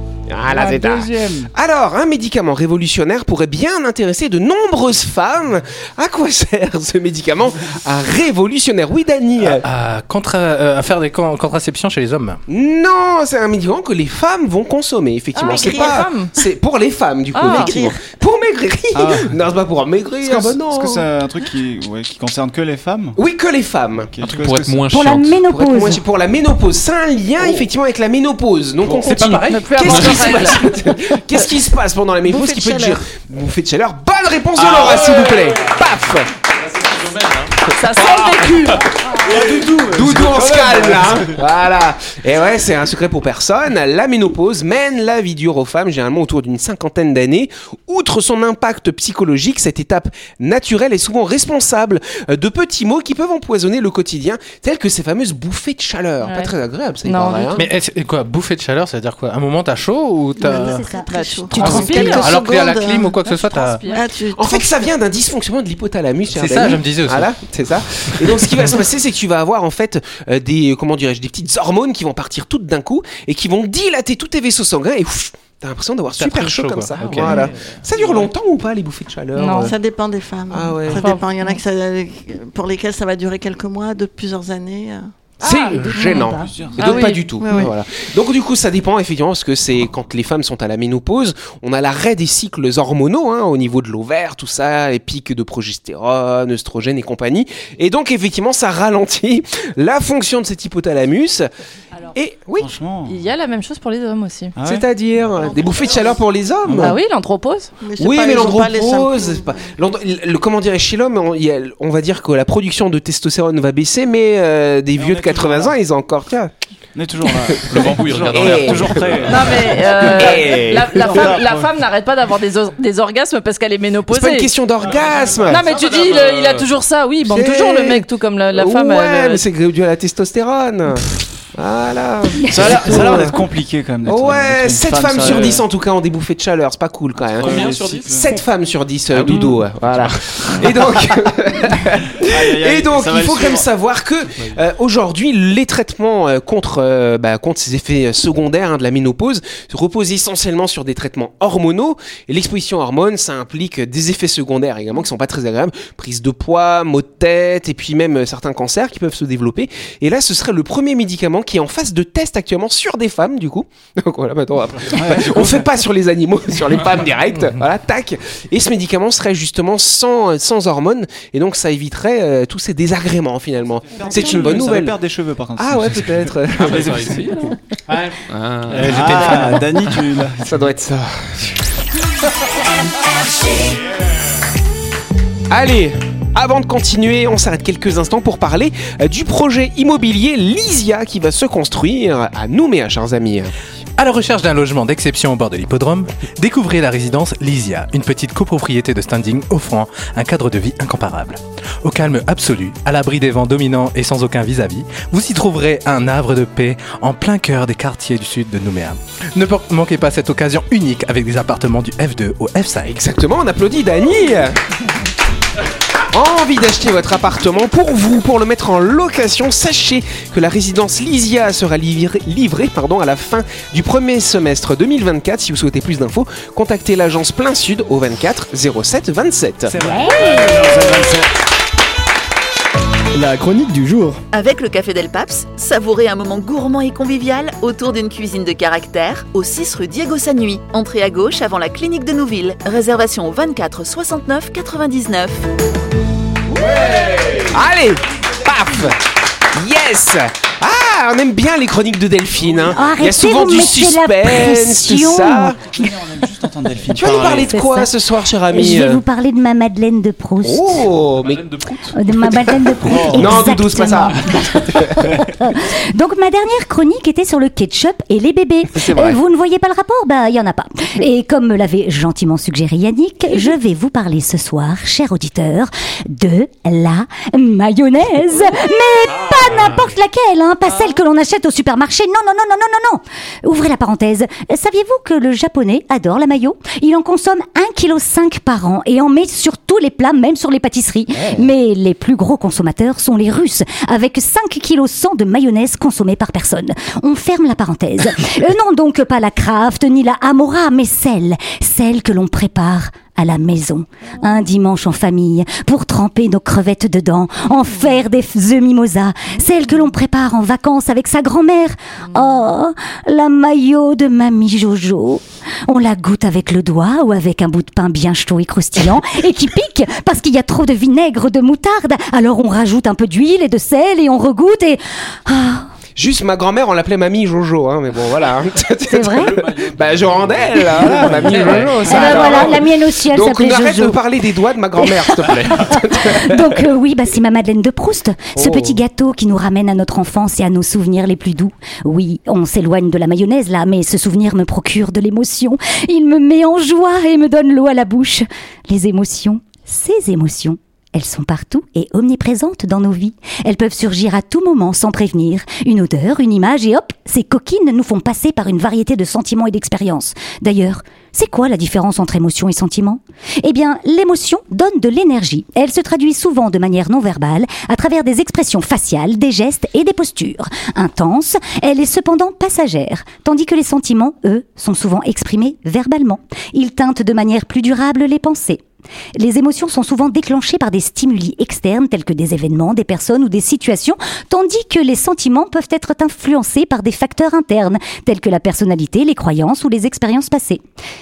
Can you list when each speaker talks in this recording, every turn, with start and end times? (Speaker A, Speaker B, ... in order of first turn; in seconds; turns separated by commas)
Speaker A: 0.3-9.6, Speaker B: 0.5-1.5, Speaker C: 9.4-12.4, Speaker A: 12.5-21.1, Speaker D: 15.3-16.3, Speaker E: 15.4-16.1, Speaker D: 17.3-17.8, Speaker E: 17.5-18.0, Speaker B: 18.9-19.4, Speaker B: 20.2-23.2, Speaker A: 23.1-24.1, Speaker B: 24.0-25.0, Speaker F: 24.2-25.4, Speaker G: 24.9-26.0, Speaker A: 25.5-36.3, Speaker C: 28.8-30.4, Speaker D: 29.4-30.6, Speaker F: 29.9-30.4, Speaker E: 32.2-33.1, Speaker F: 34.6-35.7, Speaker F: 36.7-37.7, Speaker D: 37.7-38.9, Speaker A: 39.2-57.6, Speaker C: 39.5-40.8, Speaker D: 56.2-56.5, Speaker D: 57.0-57.6, Speaker C: 57.5-60.9, Speaker G: 60.4-62.2, Speaker E: 60.4-63.1, Speaker B: 61.1-61.5, Speaker C: 61.5-63.8, Speaker D: 61.6-62.3, Speaker D: 63.2-64.0, Speaker E: 63.9-64.7, Speaker A: 64.4-79.8, Speaker C: 66.3-67.3, Speaker C: 68.2-68.8, Speaker C: 76.2-77.4, Speaker F: 76.2-78.3, Speaker E: 77.2-77.5, Speaker D: 79.4-79.7, Speaker E: 79.6-85.1, Speaker A: 80.5-81.2, Speaker D: 80.9-81.6, Speaker A: 85.4-101.5, Speaker D: 85.4-86.1, Speaker G: 85.7-86.6, Speaker E: 85.9-86.3, Speaker D: 86.8-87.3, Speaker E: 86.8-87.7, Speaker A: 102.1-102.7, Speaker B: 102.6-103.2, Speaker D: 103.1-104.5, Speaker B: 104.6-104.9, Speaker A: 104.6-107.0, Speaker E: 105.3-106.2, Speaker B: 106.6-107.0, Speaker D: 106.8-107.7, Speaker E: 107.8-109.7, Speaker A: 108.0-116.5, Speaker B: 115.0-115.8, Speaker B: 116.9-121.7, Speaker F: 117.6-119.4, Speaker A: 118.3-121.3, Speaker D: 119.3-124.5, Speaker A: 124.1-125.6, Speaker F: 124.8-126.7, Speaker D: 125.5-129.4, Speaker A: 127.2-133.4, Speaker G: 132.4-133.3, Speaker B: 132.5-135.7, Speaker A: 134.1-175.0, Speaker F: 135.2-135.6, Speaker B: 137.3-138.3, Speaker F: 137.4-138.1, Speaker B: 139.1-139.6, Speaker B: 142.2-143.7, Speaker B: 164.9-165.6, Speaker B: 173.8-177.2, Speaker A: 175.6-177.2, Speaker F: 176.6-177.6, Speaker C: 177.9-178.2, Speaker F: 178.3-179.6, Speaker B: 178.7-180.7, Speaker C: 178.8-179.5, Speaker A: 180.4-181.6, Speaker A: 185.5-193.5, Speaker C: 194.0-212.9, Speaker A: 212.8-214.6, Speaker A: 216.1-229.7, Speaker B: 229.7-231.3, Speaker G: 229.8-231.0, Speaker C: 233.1-234.2, Speaker H: 234.3-245.5, Speaker A: 247.5-249.0, Speaker A: 249.6-255.6, Speaker F: 252.4-252.8, Speaker G: 252.7-255.9, Speaker B: 255.6-257.6, Speaker A: 256.9-259.0, Speaker G: 257.4-257.9, Speaker G: 258.5-260.9, Speaker A: 260.4-261.4, Speaker F: 261.2-262.0, Speaker G: 261.9-325.7, Speaker A: 262.4-265.1, Speaker B: 262.9-263.4, Speaker A: 268.8-269.2, Speaker F: 279.1-279.9, Speaker A: 326.0-336.6, Speaker G: 328.9-329.4, Speaker F: 329.2-332.5, Speaker B: 330.8-331.7, Speaker G: 331.9-334.0, Speaker G: 334.8-378.6, Speaker A: 338.4-338.8, Speaker G: 379.1-390.6